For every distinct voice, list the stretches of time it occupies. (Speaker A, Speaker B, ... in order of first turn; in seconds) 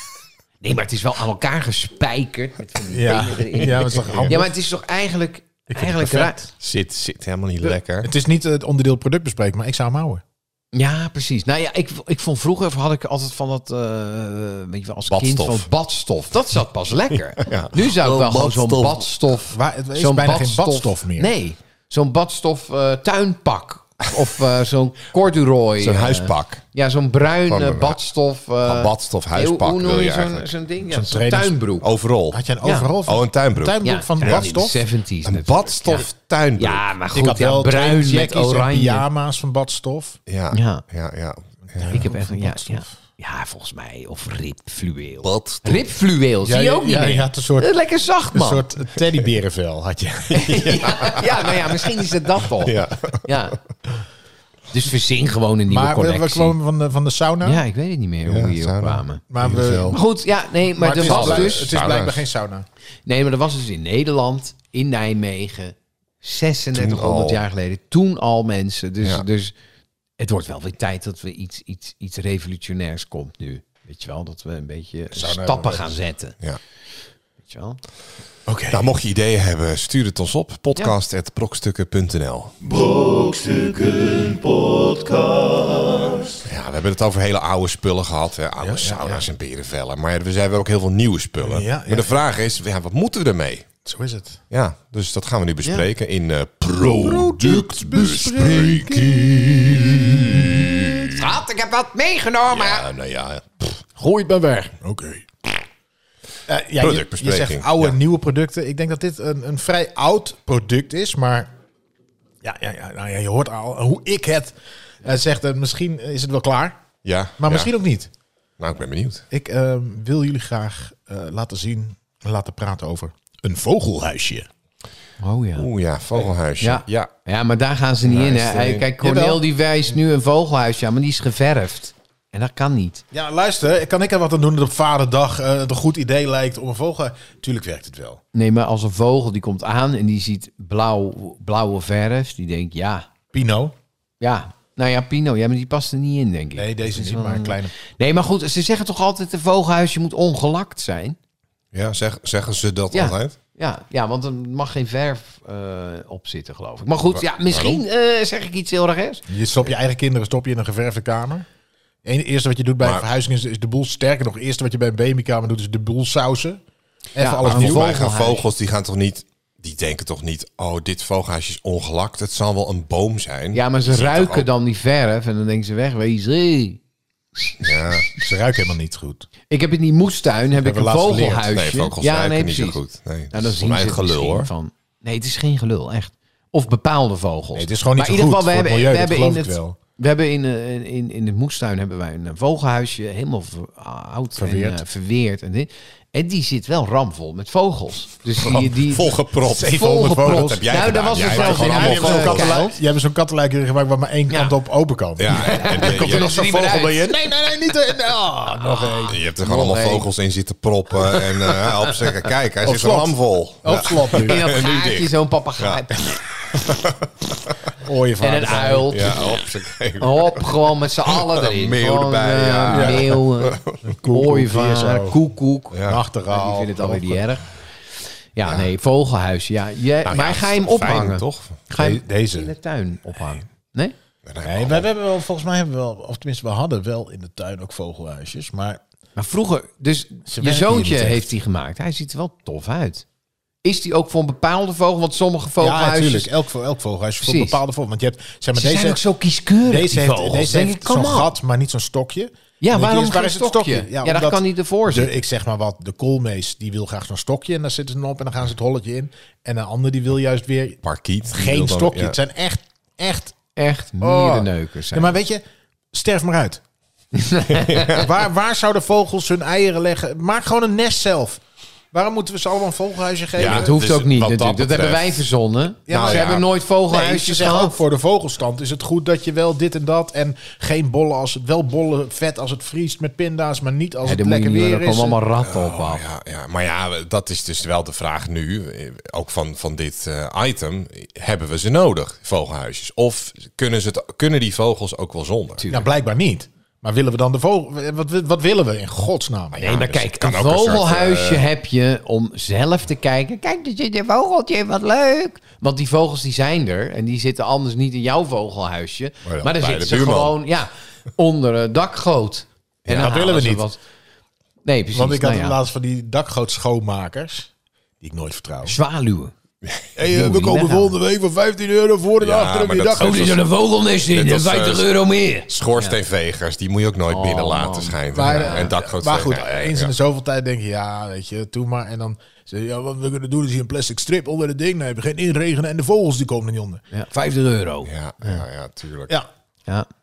Speaker A: 0.6-6.5, 10.7-31.9, 33.8-39.0, 40.5-40.8, 41.9-48.6, 50.3-53.6, 54.7-56.6, 57.4-59.2, 59.9-61.7, 63.0-69.5, 70.2-76.4, 77.4-77.8, 101.1-102.9, 104.0-104.7, 125.2-125.7, 126.6-133.0, 138.3-143.1, 144.2-151.2, 152.9-159.3, 167.2-168.5, 173.5-176.8, 177.4-178.2, 179.5-182.8, 183.3-202.8, 205.3-207.1, 208.6-210.1, 211.1-212.1, 214.3-216.2, 218.2-219.3, 220.0-225.8, 226.3-227.5, 228.3-233.9, 239.2-243.1, 243.6-246.3, 247.2-247.6, 248.5-251.3, 252.6-255.1, 263.6-265.2, 267.1-268.1, 273.4-277.8, 284.0-286.0, 295.6-295.9, 299.6-313.8, 314.6-315.6, 318.6-319.3, 320.1-321.0, 323.0-326.0, 327.1-328.7, 336.9-338.4
Speaker B: 2.9-4.5, 5.7-6.4, 8.0-10.2, 19.5-21.3, 30.9-31.6, 32.3-34.8, 37.1-40.2, 41.7-42.9, 46.4-47.7, 48.3-50.7, 55.7-57.6, 59.3-60.0, 60.8-62.7, 75.1-76.0, 78.5-78.9, 88.6-89.3, 91.4-92.2, 93.8-94.4, 96.9-99.3, 104.8-105.3, 106.5-111.5, 112.4-116.8, 117.4-118.1, 119.3-124.5, 129.0-129.4, 133.1-138.2, 143.3-143.8, 146.6-147.7, 159.3-161.5, 162.0-166.6, 167.2-168.0, 178.2-179.3, 180.6-181.5, 187.5-189.8, 194.4-194.8, 199.5-209.2, 212.6-214.4, 217.8-219.0, 222.7-223.1, 223.8-225.2, 225.8-227.2, 231.8-232.5, 234.4-238.8, 240.3-241.3, 245.6-249.0, 249.6-263.4, 264.0-266.6, 267.9-271.4, 271.9-273.7, 275.9-285.2, 295.7-299.6, 312.9-313.7, 314.9-318.8, 320.0-323.4, 328.1-336.8
Speaker C: 3.6-4.4, 6.6-8.1, 15.1-15.7, 17.4-19.1, 25.8-26.6, 27.5-28.0, 28.6-30.5, 31.8-32.4, 33.0-34.5, 35.2-36.9, 40.3-42.1, 45.2-45.9, 50.5-51.7, 52.6-53.3, 58.3-60.0, 61.0-62.3, 66.7-67.5, 78.7-82.5, 86.5-93.7, 94.5-101.3, 102.5-103.8, 106.8-108.0, 117.0-117.7, 118.6-119.2, 125.6-127.1, 128.1-128.9, 151.7-153.4, 157.1-157.8, 167.4-174.5, 177.6-178.1, 181.5-184.5, 198.4-202.6, 205.2-206.3, 209.1-215.8, 216.5-217.5, 218.9-223.9, 225.7-226.0, 230.1-231.6, 234.2-234.9, 260.8-262.2, 267.6-268.0, 273.4-275.3, 275.9-276.5, 285.4-295.7, 299.5-301.5, 309.2-310.4, 322.2-323.5, 324.1-324.9, 325.5-329.9, 337.8-339.2
Speaker D: 82.6-86.4